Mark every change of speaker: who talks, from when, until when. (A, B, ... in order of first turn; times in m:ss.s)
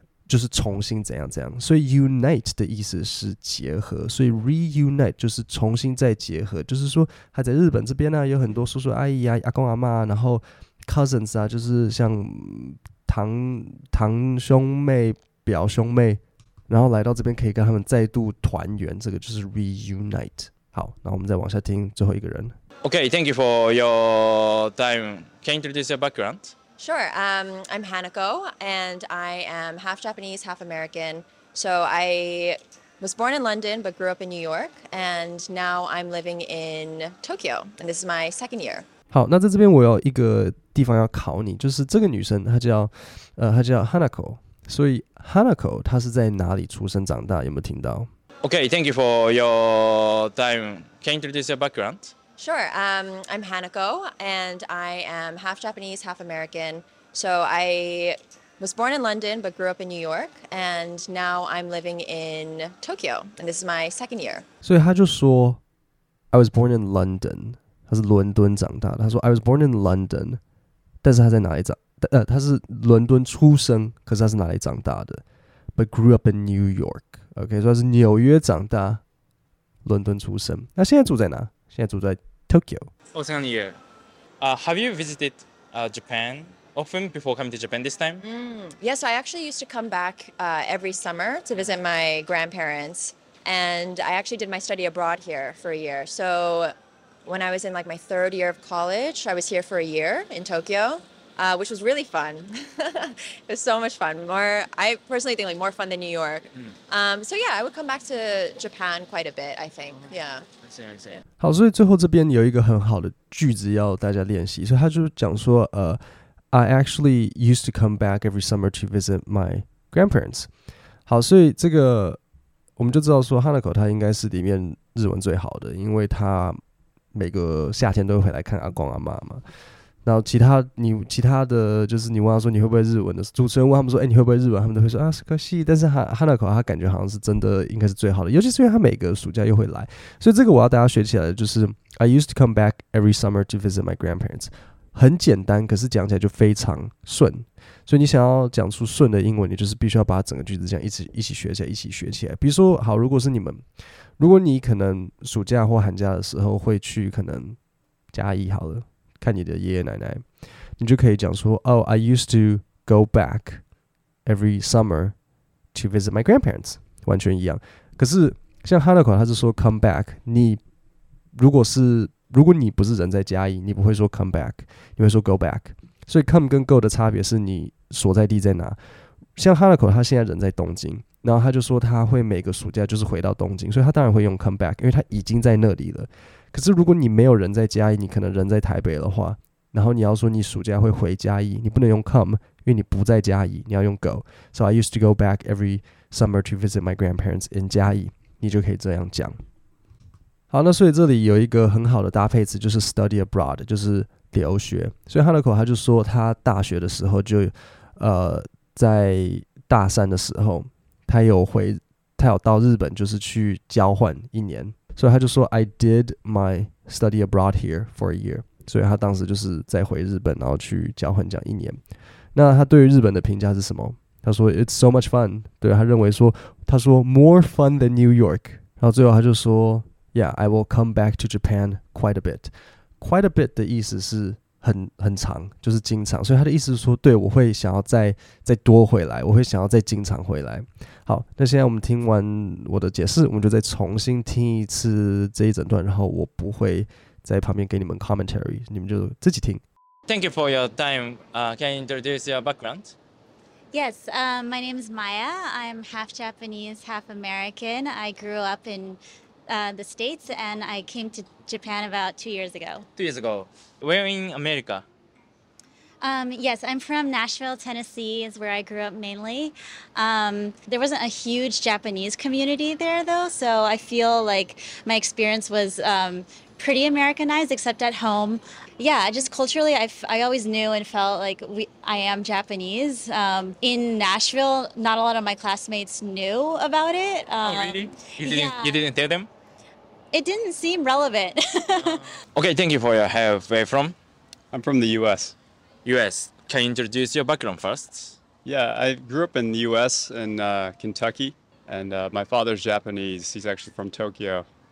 0:00.3-0:22.5 A
0:22.8-0:26.5 B
0:26.8-0:38.9 C
0:39.1-0:48.1 A
0:48.4-0:52.1 B
0:52.4-1:04.4 C
1:04.6-1:05.6 A
1:06.3-1:10.4 A
1:11.0-1:15.2 A
1:15.8-1:19.0 A
1:19.8-1:22.9 A
1:23.1-1:23.8 B
1:24.4-1:28.2 B
1:28.2-1:36.7 C
1:37.2-1:50.4 C
1:50.6-1:51.2 B
1:51.4-1:56.0 A
1:56.5-2:00.5 A
2:01.1-2:02.2 A
2:02.8-2:06.6 A
2:07.1-2:09.4 A
2:10.0-2:33.6 A
2:34.2-2:37.6 A
2:38.1-2:40.2 A
2:40.8-2:43.6 A
2:44.2-2:45.1 A
2:45.7-2:50.6 A
2:51.3-2:58.8 A
2:59.4-3:19.4 A
3:20.5-3:41.8 A
3:42.3-4:09.6 A
4:10.1-4:12.9 B
4:13.7-4:19.0 D
4:19.5-4:22.8 D
4:23.0-4:24.8 B
4:26.0-4:47.7 D
4:47.4-4:49.3 B
4:50.1-4:52.0 D
4:51.8-4:54.0 B
4:54.5-4:55.4 E
4:55.8-4:58.2 B
4:58.4-5:04.4 E